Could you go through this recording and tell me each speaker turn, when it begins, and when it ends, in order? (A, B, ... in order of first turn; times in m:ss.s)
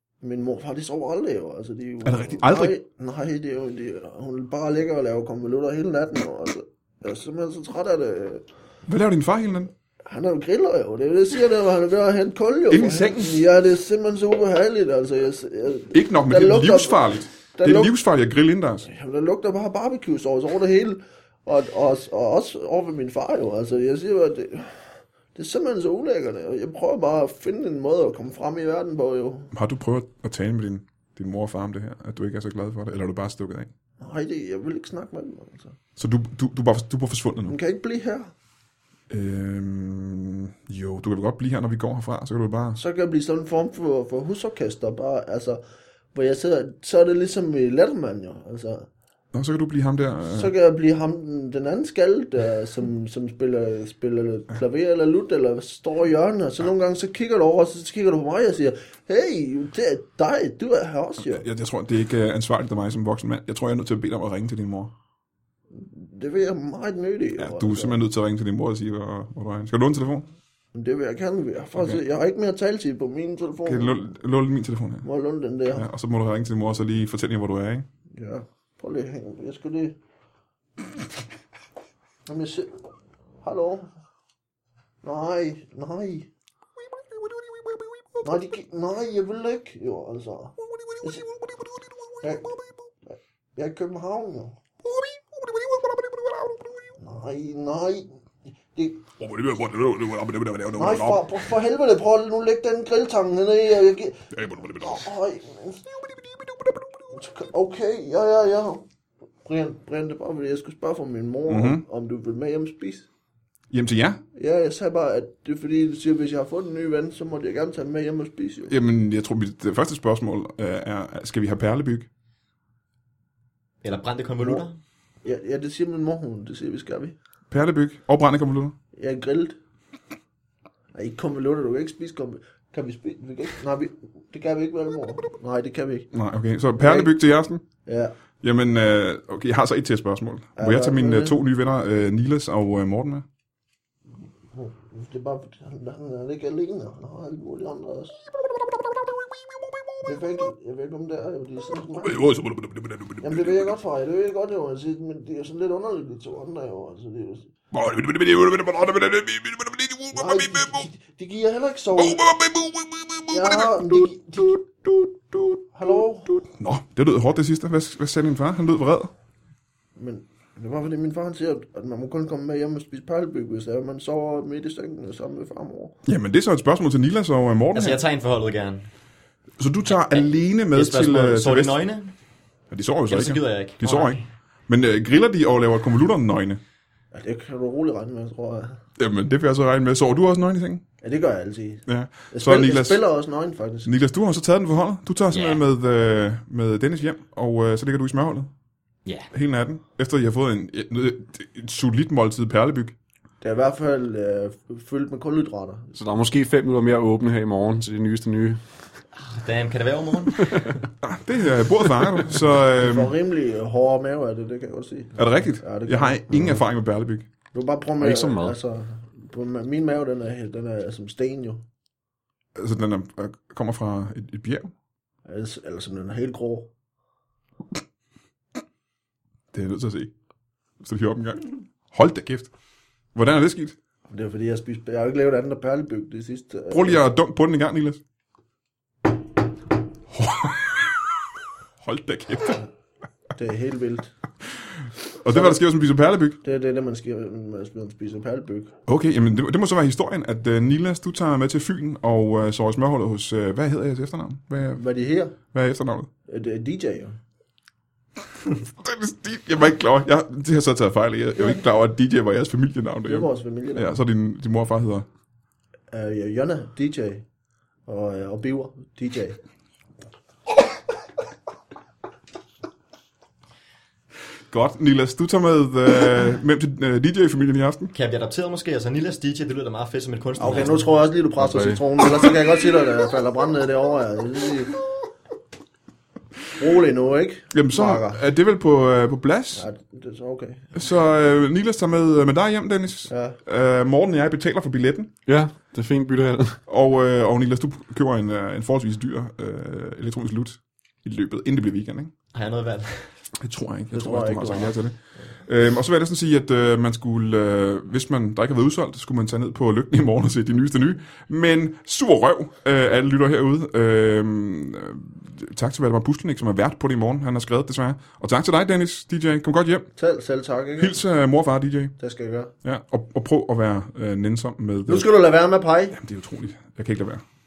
0:00.2-0:08.4 A
0:02.0-0:02.8 B
0:08.9-0:09.7 B
0:10.1-0:17.9 A
0:12.7-0:13.4 B
0:15.9-0:18.9 B
0:18.8-0:24.8 A
0:25.3-0:29.5 A
0:29.5-0:33.7 B
0:34.0-0:35.7 A
0:36.0-0:37.6 B
0:37.5-0:38.3 A
0:39.1-0:42.8 B
0:42.8-0:45.6 A
0:46.1-0:48.9 A
0:49.3-0:50.5 B
0:50.3-1:01.4 A
1:01.2-1:04.9 B
1:05.7-1:08.0 A
1:07.4-1:10.3 B
1:10.7-1:14.0 A
1:11.8-1:12.0 B
1:13.6-1:15.1 B
1:15.0-1:15.9 A
1:15.7-1:17.9 B
1:18.1-1:20.0 A
1:22.2-1:22.7 A
1:23.4-1:23.9 A
1:25.0-1:26.3 A
1:28.2-1:31.2 A
1:30.9-1:31.6 B
1:32.2-1:32.5 A
1:33.1-1:34.6 A
1:34.9-1:36.9 B
1:37.0-1:38.1 A
1:38.7-1:39.0 A
1:39.2-1:41.3 B
1:40.8-1:45.8 A
1:44.3-1:45.1 B
1:47.1-1:48.8 A
1:49.4-1:53.1 A
1:51.5-1:51.8 B
1:53.7-1:54.2 B
1:54.3-1:58.7 A
1:58.7-2:02.1 B
2:03.8-2:04.8 C
2:05.2-2:07.2 A
2:07.5-2:08.7 B
2:08.9-2:09.6 A
2:10.9-2:16.1 A
2:16.1-2:17.6 B
2:16.8-2:17.1 A
2:17.8-2:18.1 A
2:18.4-2:23.2 B
2:20.6-2:21.4 A
2:24.5-2:28.2 A
2:30.0-2:32.2 A
2:32.0-2:33.8 B
2:33.2-2:37.5 A
2:37.7-2:40.9 B
2:40.1-2:42.2 A
2:42.0-2:49.1 B
2:43.3-2:44.5 A
2:45.7-2:46.4 A
2:50.0-2:56.0 A
2:56.0-2:58.0 B
2:57.7-2:58.8 C
2:59.6-3:01.8 B
2:59.8-3:02.1 C
3:02.7-3:06.6 B
3:03.1-3:04.3 C
3:07.1-3:08.8 A
3:09.0-3:10.8 B
3:11.0-3:13.9 A
3:11.8-3:13.0 B
3:13.8-3:18.5 B
3:15.3-3:15.6 C
3:19.0-3:19.3 C
3:19.3-3:22.9 B
3:23.4-3:25.9 A
3:25.9-3:28.6 D
3:29.1-3:30.8 C
3:31.0-3:33.1 B
3:32.7-3:36.6 A
3:35.2-3:37.3 B
3:37.5-3:41.6 A
3:38.0-3:38.6 D
3:42.6-3:44.7 B
3:45.2-3:46.7 A
3:49.5-3:50.1 B
3:50.8-3:52.5 B
3:53.1-3:53.8 B
3:54.1-3:57.0 A
3:56.7-3:58.0 B
4:00.1-4:01.0 B
4:01.8-4:02.6 B
4:03.4-4:04.1 A
4:05.1-4:06.4 B
4:05.3-4:05.6 A
4:06.4-4:08.7 A
4:08.9-4:14.8 B
4:14.7-4:15.3 A
4:15.4-4:16.1 B
4:16.3-4:17.2 A
4:18.7-4:25.0 B
4:23.0-4:24.0 A
4:25.9-4:27.2 A
4:27.8-4:29.4 A
4:34.5-4:37.9 B
4:37.9-4:40.9 C
4:40.4-4:44.8 A
4:41.4-4:41.8 D
4:46.6-4:48.2 A
4:47.5-4:49.7 B
4:49.5-4:50.7 A
4:50.7-4:55.1 B
4:53.1-4:53.4 A
4:55.2-4:56.6 D
4:56.7-5:02.1 B
5:02.3-5:03.2 C
5:03.4-5:19.9 B
5:03.9-5:04.8 A
5:20.0-5:20.9 A
5:20.8-5:21.9 B
5:22.0-5:22.5 A
5:22.6-5:25.1 B
5:24.9-5:25.9 A
5:25.9-5:27.2 B